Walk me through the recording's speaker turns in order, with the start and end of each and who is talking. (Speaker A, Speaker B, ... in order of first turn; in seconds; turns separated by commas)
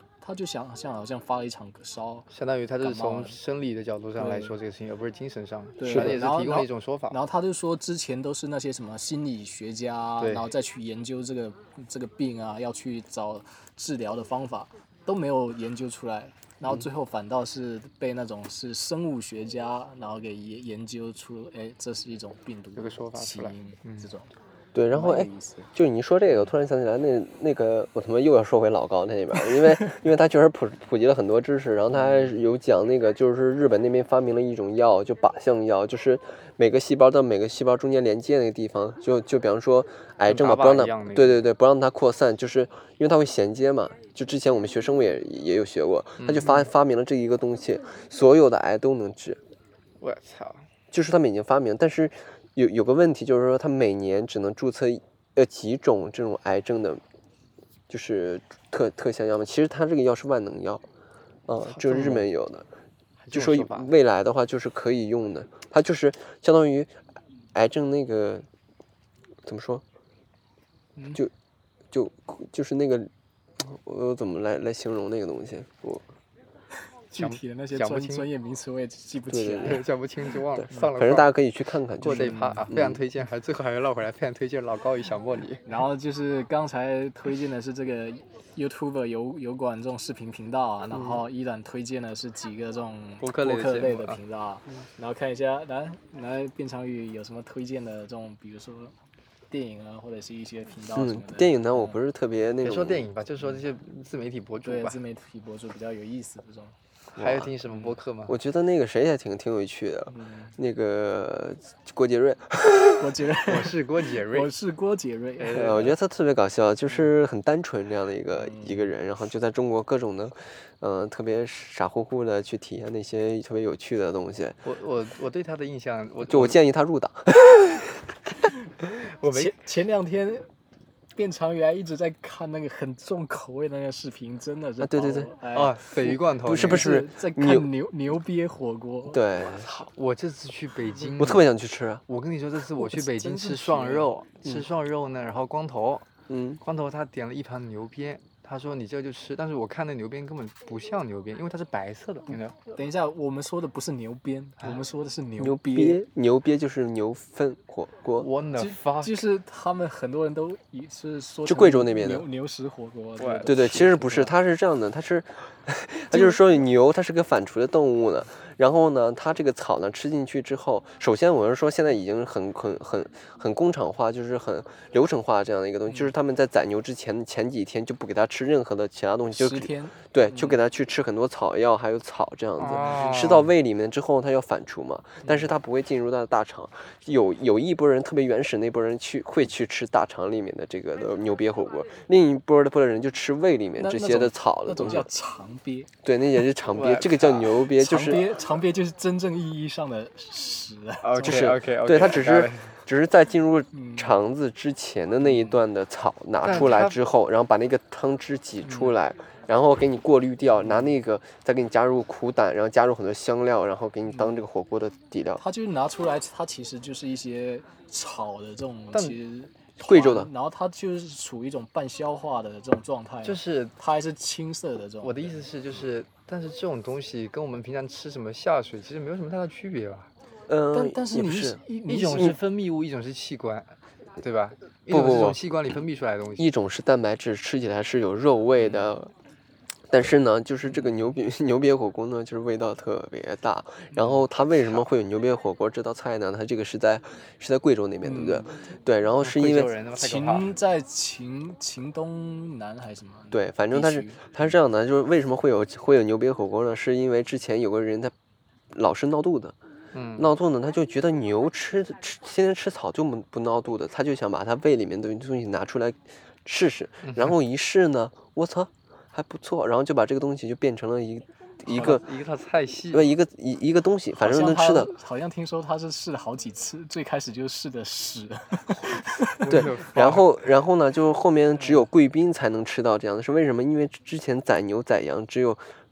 Speaker A: 0.2-2.3, Speaker B: 2.3-7.2, Speaker A: 2.8-3.4, Speaker A: 4.2-4.5, Speaker A: 5.8-24.3, Speaker B: 10.2-10.5, Speaker B: 22.7-24.1, Speaker C: 24.7-49.4, Speaker A: 24.9-25.7, Speaker B: 40.2-41.5, Speaker B: 46.2-46.7, Speaker B: 50.0-50.7, Speaker C: 50.9-57.0, Speaker C: 57.9-60.8, Speaker C: 61.5-62.6, Speaker B: 61.6-62.2, Speaker B: 63.2-63.9, Speaker C: 63.3-67.0, Speaker C: 67.5-68.4, Speaker C: 69.4-69.8, Speaker C: 71.9-76.0, Speaker A: 77.1-79.8, Speaker B: 77.1-78.3, Speaker C: 79.3-79.8, Speaker B: 79.6-81.3, Speaker C: 80.5-83.0, Speaker B: 82.0-85.7, Speaker A: 82.0-82.7, Speaker A: 85.7-98.9, Speaker B: 93.2-94.2, Speaker A: 99.5-102.0, Speaker C: 100.9-103.1, Speaker B: 102.6-105.0, Speaker A: 104.6-106.7, Speaker B: 107.2-108.3, Speaker C: 107.2-107.5, Speaker C: 108.3-113.0, Speaker A: 110.1-110.5, Speaker A: 113.0-115.7, Speaker B: 113.5-114.5, Speaker B: 115.4-116.0, Speaker C: 115.5-124.6, Speaker A: 118.3-118.9, Speaker B: 124.6-126.6, Speaker C: 126.3-127.9, Speaker B: 129.0-129.5, Speaker A: 129.2-130.5, Speaker A: 131.2-139.2, Speaker C: 134.8-135.3, Speaker B: 135.5-136.9, Speaker C: 136.1-137.7, Speaker C: 139.1-139.7, Speaker B: 139.4-141.5, Speaker C: 141.2-142.0, Speaker B: 142.1-146.1, Speaker A: 142.8-144.1, Speaker C: 146.3-146.6, Speaker B: 146.6-152.6, Speaker A: 152.7-156.0, Speaker C: 155.4-158.3, Speaker B: 158.2-159.2, Speaker A: 158.6-164.3, Speaker C: 161.4-162.2, Speaker B: 163.2-163.5, Speaker C: 163.4-195.1, Speaker A: 166.1-166.4, Speaker A: 179.3-180.6, Speaker B: 182.6-183.5, Speaker A: 182.7-183.2, Speaker A: 193.8-195.9, Speaker C: 196.0-198.3, Speaker B: 196.7-197.6, Speaker A: 197.8-201.5, Speaker B: 201.0-202.7, Speaker C: 201.2-215.4, Speaker A: 203.7-204.2, Speaker A: 205.2-205.6, Speaker B: 206.4-207.0, Speaker A: 210.6-210.9, Speaker A: 214.1-214.4, Speaker A: 215.4-225.3, Speaker C: 219.8-220.3, Speaker B: 223.2-223.7, Speaker B: 225.0-230.1, Speaker C: 230.5-231.6, Speaker A: 230.7-232.3, Speaker B: 231.9-236.5, Speaker C: 234.9-235.4, Speaker C: 236.4-239.1, Speaker C: 239.9-249.7, Speaker B: 244.0-244.9, Speaker A: 248.0-248.5, Speaker B: 249.2-250.5, Speaker A: 249.9-254.3, Speaker C: 253.3-258.1, Speaker C: 258.7-259.5, Speaker B: 259.9-260.3, Speaker C: 260.2-272.1, Speaker B: 267.1-267.3, Speaker B: 271.6-273.1, Speaker C: 272.9-274.9, Speaker A: 274.1-279.4, Speaker B: 279.4-280.3, Speaker C: 279.5-285.6